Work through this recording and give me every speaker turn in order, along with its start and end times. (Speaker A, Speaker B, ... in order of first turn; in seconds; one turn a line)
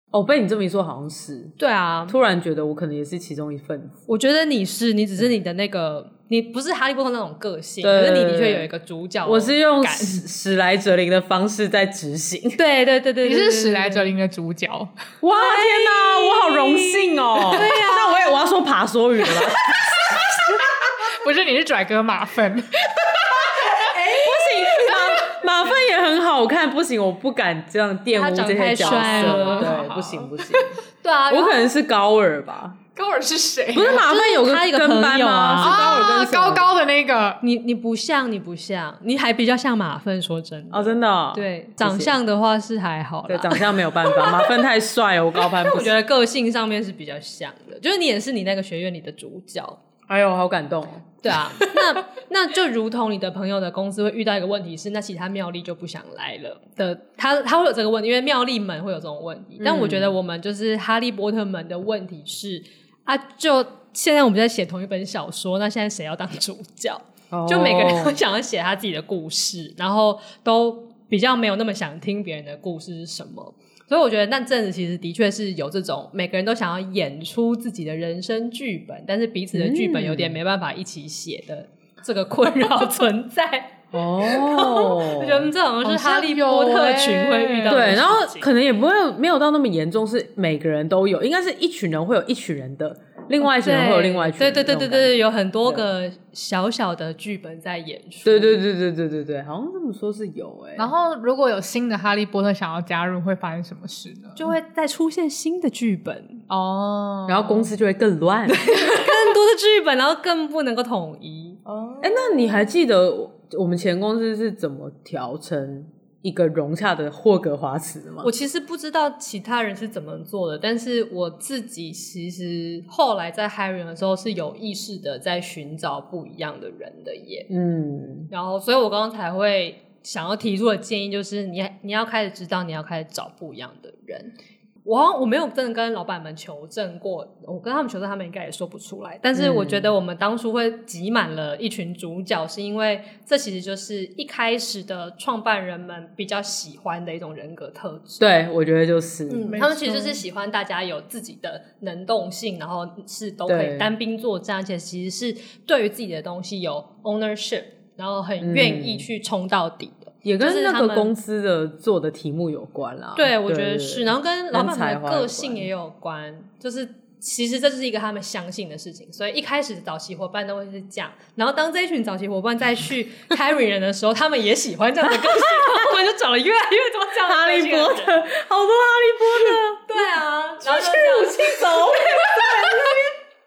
Speaker A: 0.1-1.6
Speaker B: 1.6-2.2
Speaker A: 2.1-4.0
Speaker B: 4.1-10.2
Speaker A: 7.8-8.7
Speaker A: 9.2-12.6
Speaker B: 12.6-14.2
Speaker C: 13.2-14.9
Speaker A: 15.2-20.2
Speaker B: 15.3-18.4
Speaker C: 20.1-23.9
Speaker A: 23.7-32.8
Speaker B: 23.9-24.3
Speaker C: 24.8-25.4
Speaker B: 28.1-29.7
Speaker C: 28.8-30.8
Speaker B: 31.0-31.7
Speaker C: 33.0-34.1
Speaker A: 33.7-36.7
Speaker B: 33.9-35.9
Speaker C: 35.6-37.4
Speaker B: 37.4-44.5
Speaker A: 40.7-42.1
Speaker A: 43.3-45.9
Speaker B: 45.4-49.8
Speaker A: 50.1-51.2
Speaker B: 51.2-88.5
Speaker A: 59.6-60.1
Speaker A: 67.3-68.2
Speaker A: 79.5-80.4
Speaker A: 83.9-85.5
Speaker C: 85.8-87.9
Speaker A: 87.7-95.9
Speaker B: 93.4-98.6
Speaker A: 98.2-100.9
Speaker C: 100.8-104.5
Speaker B: 104.4-106.4
Speaker C: 106.5-107.7
Speaker A: 107.3-108.8
Speaker B: 108.5-111.6
Speaker C: 111.7-112.5
Speaker A: 112.0-118.3
Speaker B: 118.2-127.5
Speaker A: 127.5-128.3
Speaker B: 128.3-134.3
Speaker B: 134.8-148.2
Speaker A: 139.3-139.9
Speaker A: 148.2-149.9
Speaker B: 149.3-161.1
Speaker C: 149.5-150.2
Speaker A: 153.5-153.9
Speaker A: 158.4-159.1
Speaker A: 160.2-165.7
Speaker B: 163.2-178.2
Speaker A: 175.1-175.9
Speaker A: 177.2-179.8
Speaker B: 179.3-183.1
Speaker A: 180.7-182.7